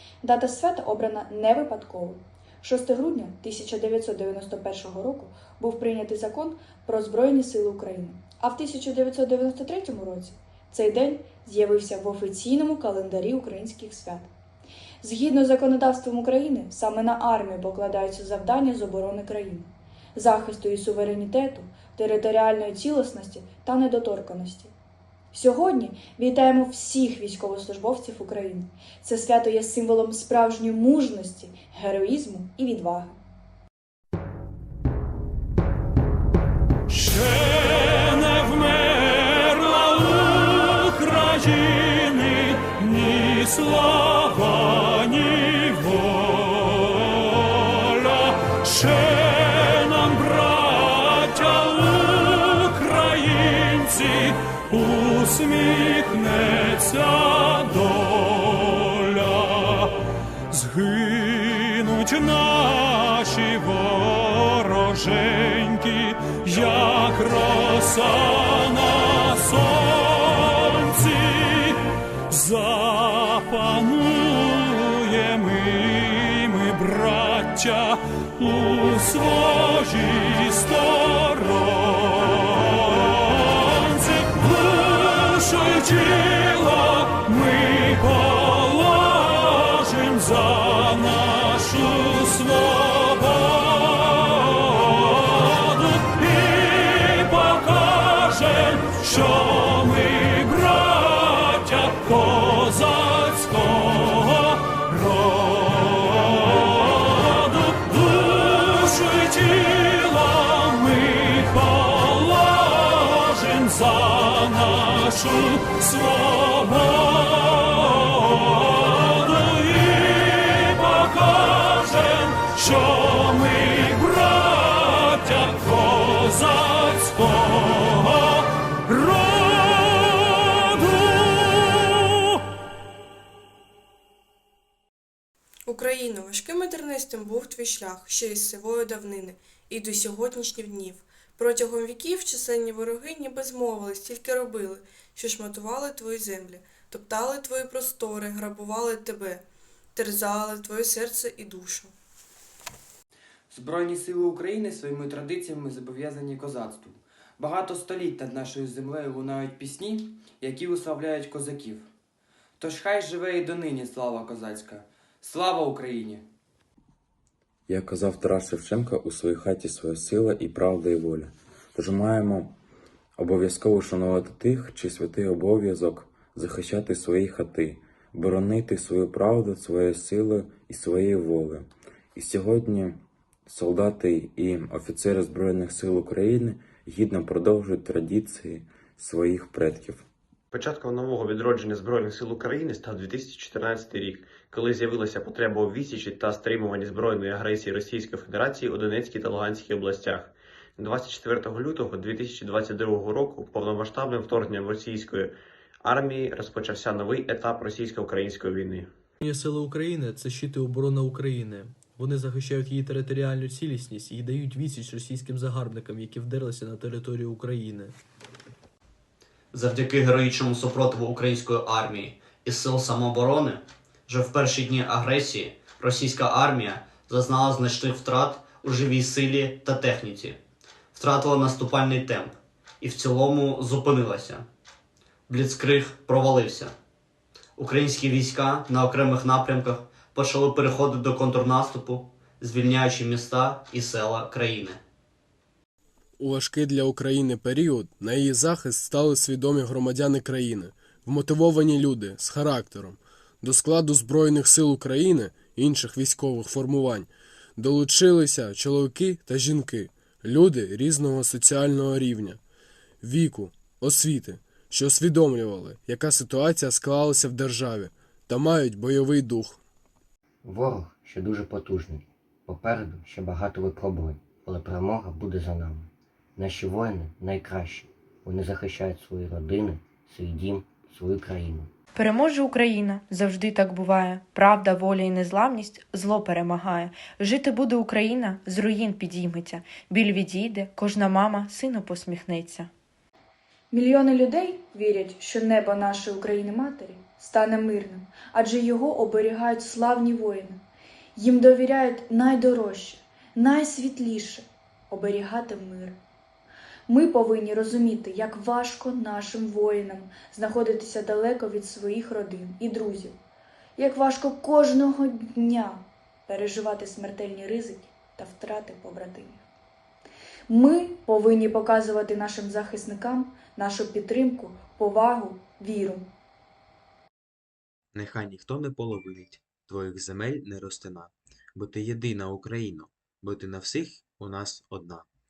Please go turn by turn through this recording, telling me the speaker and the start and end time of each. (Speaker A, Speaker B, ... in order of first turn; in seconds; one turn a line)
Speaker A: 0.2-14.3
Speaker A: 15.0-24.7
Speaker A: 25.3-33.2
Speaker B: 36.9-59.9
Speaker B: 60.5-131.8
Speaker C: 135.7-151.9
Speaker D: 153.5-161.9
Speaker D: 162.6-166.2
Speaker E: 167.7-172.6
Speaker E: 173.2-190.1
Speaker F: 190.5-205.3
Speaker F: 205.8-208.9
Speaker G: 209.2-217.9
Speaker H: 219.5-230.4
Speaker H: 230.9-234.4
Speaker H: 235.3-236.7
Speaker H: 237.6-244.8
Speaker I: 246.2-262.4
Speaker I: 263.0-269.6
Speaker J: 270.4-281.7
Speaker K: 282.0-292.7
Speaker A: 293.7-300.6
Speaker A: 301.2-306.0
Speaker A: 306.9-313.2
Speaker A: 313.8-319.4
Speaker A: 320.5-326.1
Speaker L: 327.9-335.1